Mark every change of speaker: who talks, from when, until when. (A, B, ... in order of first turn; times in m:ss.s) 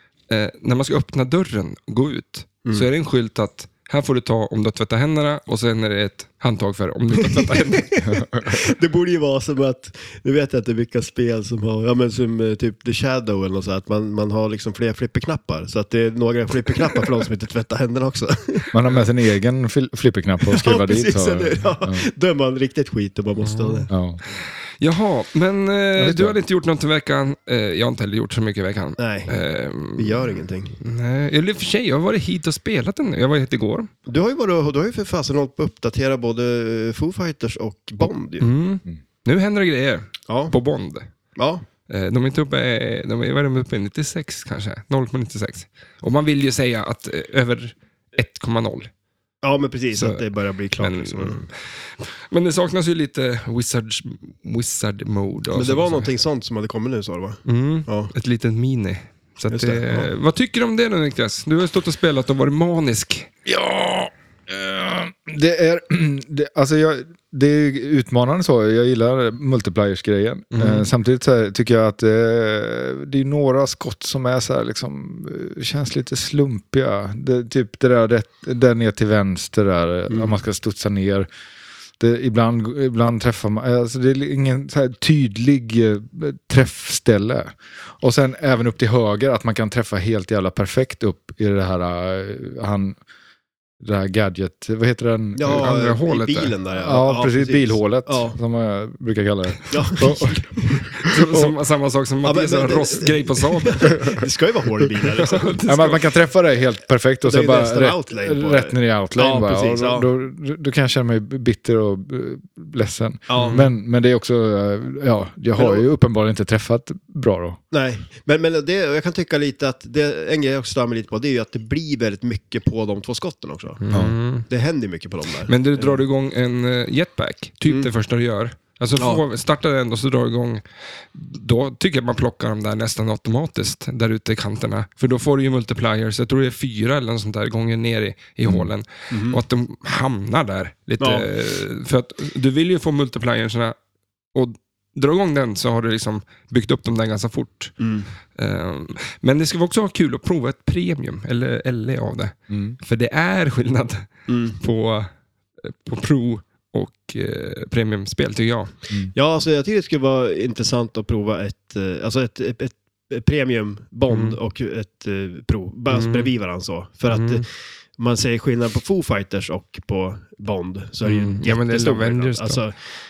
0:00.3-0:07.9 A
0:07.3-0:18.7 B
0:08.0-0:08.6 C
0:18.7-0:22.1 C
0:20.5-0:23.9 B
0:23.4-0:23.9 A
0:23.9-0:24.2 C
0:24.8-0:33.9 A
0:26.0-0:26.4 C
0:29.0-0:29.3 B
0:30.0-0:30.8 B
0:34.1-0:38.5 B
0:38.4-0:41.1 A
0:40.3-0:40.5 B
0:41.4-0:41.6 B
0:41.9-0:48.9 A
0:49.4-0:51.4 B
0:49.9-0:50.2 A
0:50.8-0:56.1 A
0:55.5-0:58.1 B
0:57.5-1:03.3 A
0:59.5-1:00.1 B
1:03.5-1:21.3 C
1:10.5-1:10.9 A
1:20.1-1:20.4 B
1:22.0-1:33.0 C
1:33.8-1:35.7 C
1:35.4-1:38.4 B
1:35.5-1:36.5 A
1:36.7-1:41.5 C
1:39.7-1:40.9 B
1:41.0-1:44.2 A
1:42.2-1:45.6 B
1:45.2-1:46.0 A
1:45.7-1:57.6 C
1:47.2-1:50.1 B
1:53.3-1:53.6 B
1:53.3-1:53.7 A
1:55.6-1:55.9 B
1:57.7-2:03.8 B
2:03.8-2:04.5 A
2:04.5-2:06.0 B
2:05.5-2:23.8 A
2:09.0-2:09.2 B
2:19.1-2:19.4 B
2:21.0-2:21.3 B
2:24.3-2:27.8 A
2:27.8-2:28.1 B
2:28.3-2:35.1 A
2:32.5-2:32.8 C
2:34.3-2:34.6 B
2:35.6-2:38.7 A
2:39.1-2:47.4 B
2:44.1-2:44.4 A
2:45.9-2:46.3 A
2:47.1-2:47.4 A
2:48.0-2:52.8 B
2:51.0-2:52.6 A